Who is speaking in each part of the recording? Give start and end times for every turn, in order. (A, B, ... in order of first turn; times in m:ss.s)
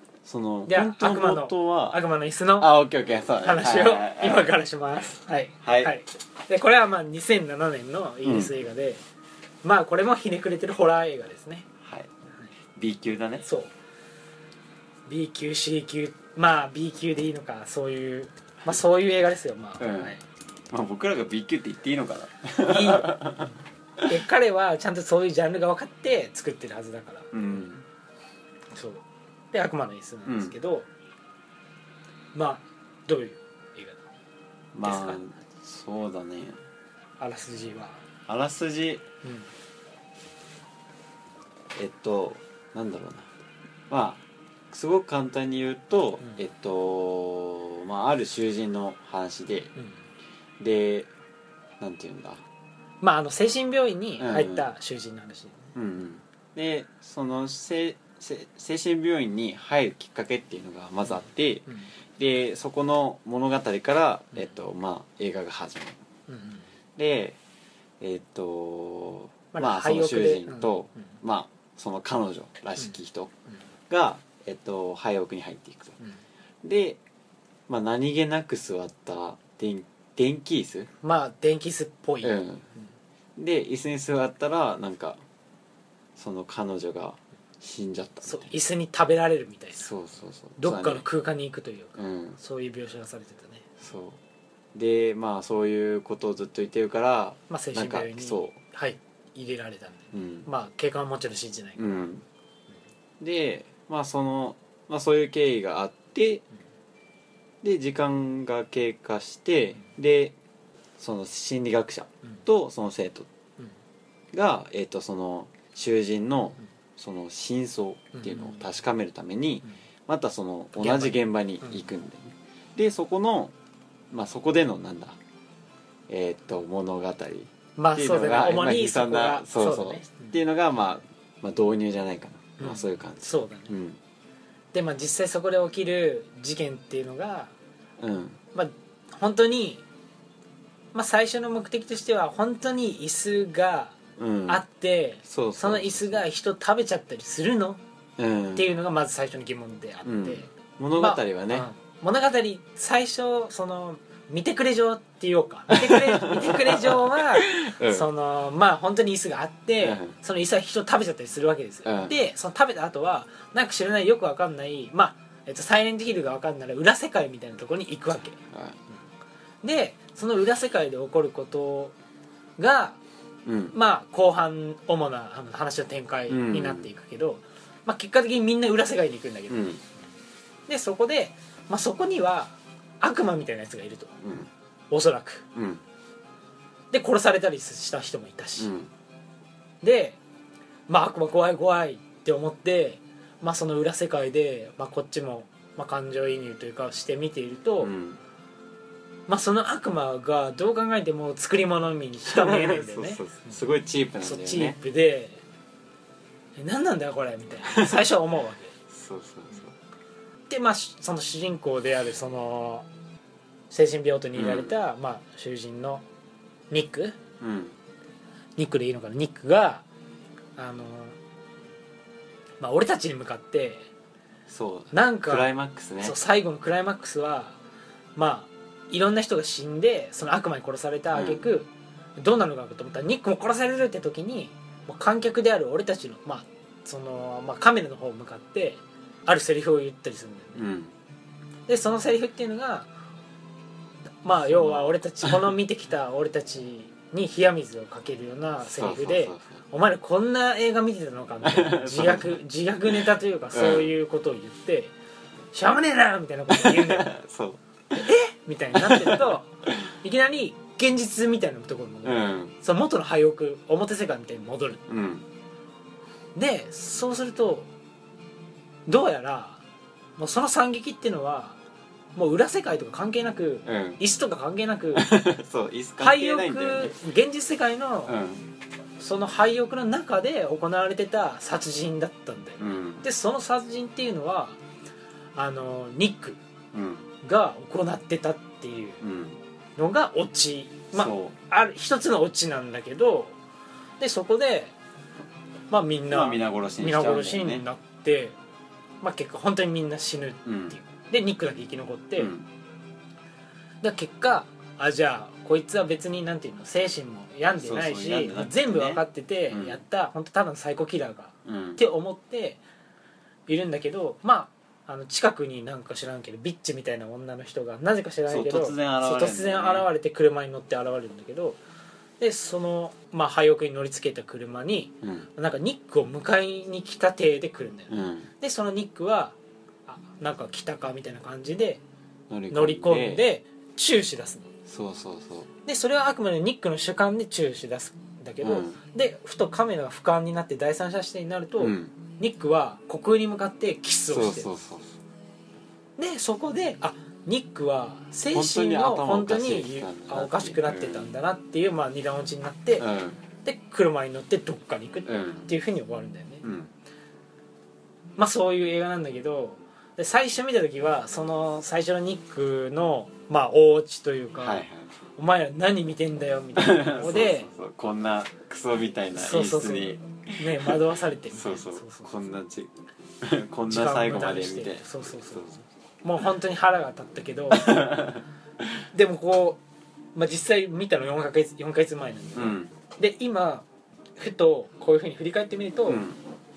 0:00.2-0:02.0 A
0:00.7-0:02.8 B
0:02.6-0:04.5 A
0:03.4-0:09.0 B
0:05.6-0:05.9 A
0:08.2-0:08.5 A
0:09.6-0:11.7 B
0:11.8-0:12.1 A
0:12.8-0:13.5 A
0:13.4-0:13.7 B
0:15.1-0:20.1 B
0:19.8-0:20.2 A
0:20.7-0:23.5 A
0:22.6-0:23.5 B
0:24.0-0:27.6 B
0:27.3-0:27.8 A
0:28.7-0:30.9 B
0:30.3-0:30.5 A
0:32.4-0:34.0 B
0:34.7-0:36.6 A
0:34.8-0:35.2 B
0:37.2-0:38.0 B
0:38.3-0:39.0 A
0:39.2-0:39.5 B
0:41.8-0:43.3 A
0:43.9-0:49.7 A
0:50.6-0:51.1 A
0:51.8-0:52.4 A
0:53.0-0:55.7 B
0:54.2-0:54.7 A
0:55.8-1:01.7 A
1:02.2-1:06.0 A
1:06.3-1:06.6 B
1:07.0-1:07.4 A
1:08.0-1:13.3 A
1:09.5-1:10.7 B
1:13.9-1:16.0 A
1:16.6-1:17.0 A
1:17.7-1:20.9 A
1:21.0-1:22.4 B
1:22.2-1:22.7 A
1:23.4-1:25.2 A
1:26.2-1:28.5 A
1:28.2-1:29.9 B
1:29.8-1:31.0 A
1:30.6-1:33.7 B
1:32.0-1:32.4 A
1:33.8-1:34.2 A
1:34.7-1:38.6 A
1:37.5-1:42.1 B
1:40.1-1:40.5 A
1:41.8-1:42.2 A
1:43.2-1:46.4 A
1:47.6-1:50.4 A
1:51.0-1:53.3 A
1:54.3-2:03.5 A
1:58.2-1:58.6 B
2:00.8-2:01.8 B
2:04.1-2:05.2 A
2:06.1-2:14.0 A
2:07.8-2:10.4 B
2:12.6-2:13.7 B
2:14.7-2:17.5 B
2:18.0-2:18.4 A
2:18.6-2:19.8 B
2:20.9-2:27.8 B
2:24.2-2:24.6 A
2:25.3-2:26.2 A
2:28.2-2:28.7 A
2:28.6-2:48.4 B
2:30.0-2:31.7 A
2:35.7-2:38.1 A
2:39.8-2:40.1 A
2:41.8-2:42.1 A
2:48.5-2:48.8 A
2:49.6-2:52.0 B
2:52.6-2:53.0 B
2:53.5-2:53.8 A
2:53.7-2:59.8 B
2:56.3-2:56.9 A
2:59.5-2:59.8 A
3:00.7-3:04.2 B
3:04.2-3:04.5 A
3:04.9-3:05.5 B
3:05.6-3:05.8 A
3:06.9-3:08.7 B
3:08.6-3:08.9 A
3:09.8-3:10.2 B
3:10.9-3:17.9 B
3:17.8-3:18.2 A
3:19.3-3:23.2 B
3:22.3-3:24.8 A
3:24.2-3:25.4 B
3:26.6-3:28.7 B
3:27.7-3:28.0 A
3:28.9-3:29.8 A
3:30.5-3:32.9 B
3:33.7-3:36.0 B
3:34.3-3:34.7 A
3:36.7-3:37.2 B
3:37.4-3:37.8 A
3:38.6-3:39.8 B
3:40.6-3:41.2 B
3:42.6-3:43.9 B
3:44.5-3:46.2 A
3:44.9-3:45.5 B
3:46.0-3:47.6 B
3:48.2-4:00.6 B
3:51.1-3:51.4 A
4:00.6-4:00.9 A
4:01.7-4:02.9 B
4:04.2-4:14.9 B
4:04.5-4:05.5 A
4:08.6-4:09.6 A
4:11.4-4:12.4 A
4:12.9-4:13.9 A
4:15.5-4:17.1 B
4:16.5-4:17.6 A
4:17.9-4:19.5 B
4:18.7-4:19.9 A
4:20.0-4:24.8 B
4:22.0-4:22.6 A
4:24.9-4:25.3 A
4:26.4-4:27.7 B
4:28.9-4:29.6 B
4:30.2-4:31.6 B
4:32.2-4:35.1 B
4:33.7-4:34.0 A
4:35.0-4:37.0 A
4:36.0-4:38.2 B
4:38.1-4:38.5 A
4:39.0-4:44.6 B
4:42.6-4:43.0 A
4:45.4-4:46.4 B
4:46.7-4:47.1 A
4:47.2-4:49.0 B
4:49.0-4:49.4 A
4:49.8-4:53.4 B
4:50.9-4:51.4 A
4:54.0-4:54.7 B
4:55.7-4:58.4 B
4:56.1-4:57.6 A
4:59.0-5:02.3 B
5:00.4-5:00.8 A
5:02.2-5:02.5 A
5:03.8-5:12.6 B
5:07.6-5:09.8 A
5:11.4-5:11.8 A
5:13.5-5:21.6 B
5:18.3-5:19.9 A
5:22.2-5:29.4 B
5:25.0-5:25.3 A
5:27.9-5:28.3 A
5:29.9-5:31.8 B
5:32.3-5:33.2 A
5:32.5-5:34.5 B
5:34.7-5:35.5 A
5:35.7-5:44.5 B
5:38.4-5:38.8 A
5:41.6-5:41.9 A
5:44.1-5:45.0 A
5:46.0-5:52.9 B
5:48.3-5:51.1 A
5:52.8-5:53.2 A
5:53.4-5:56.5 B
5:55.1-5:55.5 A
5:56.4-5:56.7 A
5:58.2-6:04.6 B
6:04.4-6:04.9 A
6:05.2-6:07.5 B
6:06.6-6:10.8 A
6:09.2-6:12.1 B
6:11.3-6:12.7 A
6:13.2-6:15.6 A
6:13.7-6:15.5 B
6:16.0-6:17.9 B
6:17.5-6:18.2 A
6:18.9-6:19.6 B
6:20.2-6:26.0 B
6:22.4-6:22.7 A
6:25.9-6:26.2 A